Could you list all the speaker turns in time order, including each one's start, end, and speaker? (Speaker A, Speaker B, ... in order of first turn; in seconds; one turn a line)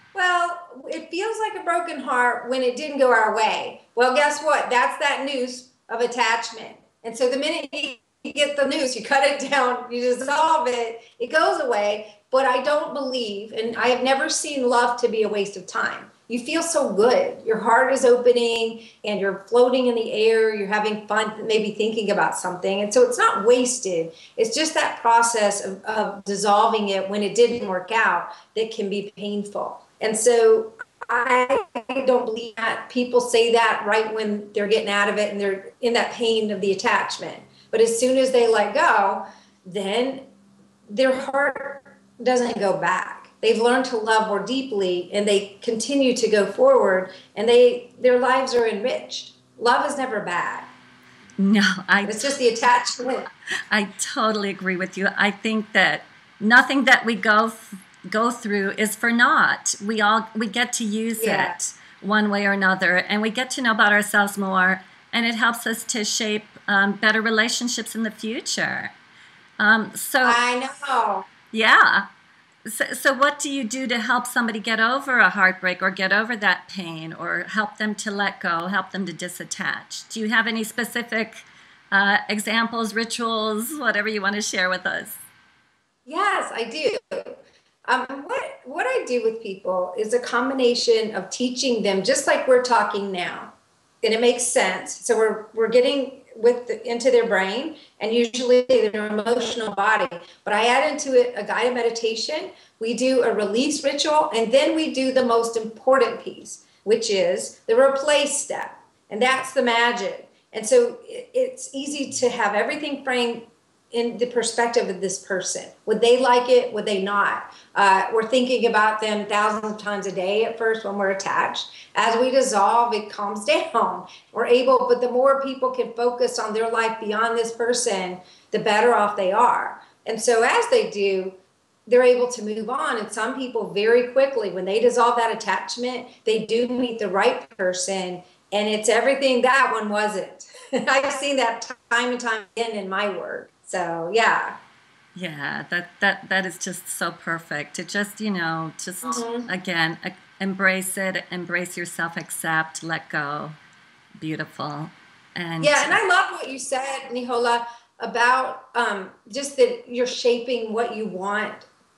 Speaker A: 0.1-40.2
Speaker A: 40.9-50.7
Speaker B: 51.4-52.3
Speaker A: 52.0-53.3
Speaker B: 53.7-68.9
Speaker A: 61.2-61.5
Speaker B: 69.6-70.4
Speaker A: 70.2-71.3
Speaker B: 71.5-72.1
Speaker B: 72.7-85.2
Speaker A: 86.1-131.4
Speaker A: 131.9-144.6
Speaker B: 145.2-153.6
Speaker A: 149.1-149.5
Speaker B: 154.2-156.0
Speaker A: 155.6-161.7